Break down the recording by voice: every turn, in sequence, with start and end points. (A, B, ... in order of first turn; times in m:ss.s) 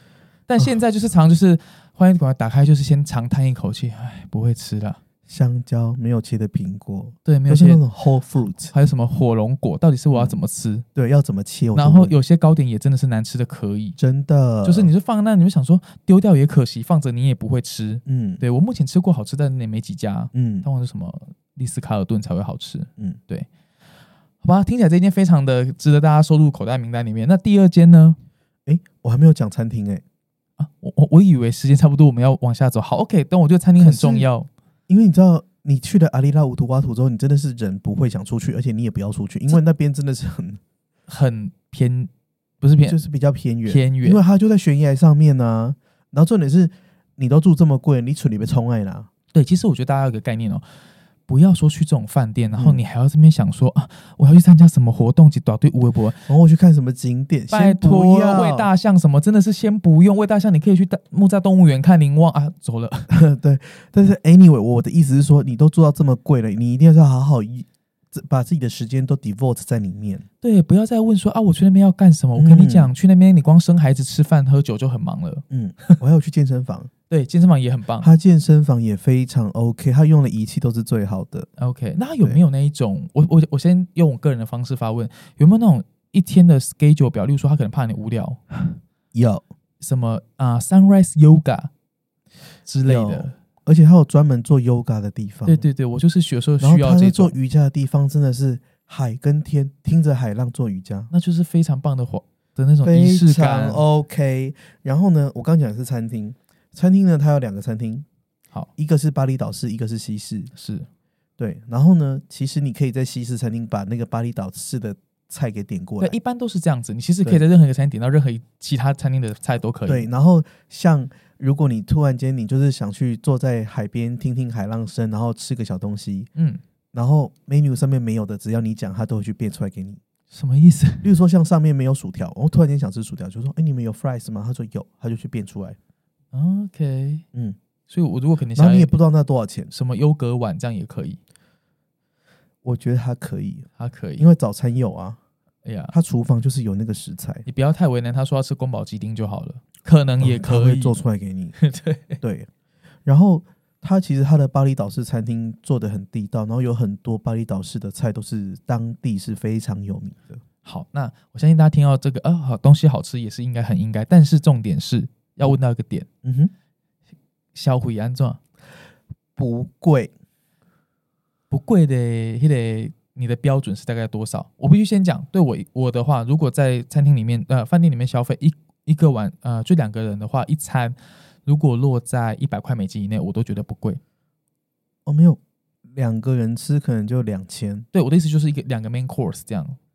0:00.5-0:05.0 A
0:05.3-0:08.7 B
0:07.2-0:07.8 A
0:08.7-0:10.8 A
0:10.1-0:10.4 B
0:10.9-0:12.1 B
0:11.7-0:14.0 A
0:14.0-0:14.9 B
0:14.6-0:23.5 A
0:18.0-0:18.4 B
0:20.3-0:20.7 B
0:24.4-0:28.2 A
0:28.6-0:30.0 B
0:30.6-0:34.5 A
0:33.8-0:34.3 B
0:34.9-0:40.6 B
0:41.1-0:42.1 A
0:42.6-0:43.0 A
0:42.9-0:49.1 B
0:43.6-0:44.2 A
0:49.3-0:50.6 A
0:51.3-0:56.2 A
0:52.5-0:52.8 B
0:56.3-0:58.7 B
0:57.5-1:03.1 A
1:03.1-1:10.2 B
1:10.4-1:15.4 A
1:12.4-1:12.9 B
1:15.5-1:16.9 B
1:17.1-1:18.1 A
1:18.0-1:21.5 B
1:21.6-1:28.4 A
1:29.1-1:29.4 B
1:29.8-1:31.7 A
1:32.7-1:33.4 A
1:32.8-1:35.6 B
1:35.4-1:37.3 A
1:36.6-1:41.1 B
1:41.1-1:43.8 A
1:42.8-1:48.0 B
1:48.8-1:50.5 B
1:50.5-1:50.9 A
1:51.4-1:56.1 B
1:56.0-2:00.1 A
1:59.9-2:06.3 B
2:06.4-2:06.6 A
2:06.9-2:10.0 B
2:10.3-2:11.1 A
2:11.0-2:15.8 B
2:16.3-2:17.2 A
2:17.9-2:18.9 A
2:18.6-2:19.7 B
2:19.7-2:21.2 A
2:22.6-2:23.7 B
2:23.8-2:24.3 A
2:24.2-2:25.2 B
2:25.6-2:25.9 A
2:25.9-2:27.4 B
2:27.4-2:31.0 A
2:30.2-2:31.6 B
2:31.6-2:32.2 A
2:32.2-2:32.5 B
2:33.0-2:40.4 B
2:40.6-2:46.1 A
2:46.2-2:46.5 B
2:47.5-2:48.4 A
2:49.4-2:50.1 B
2:51.5-3:04.0 A
3:05.0-3:05.4 B
3:05.9-3:07.8 B
3:07.9-3:09.8 A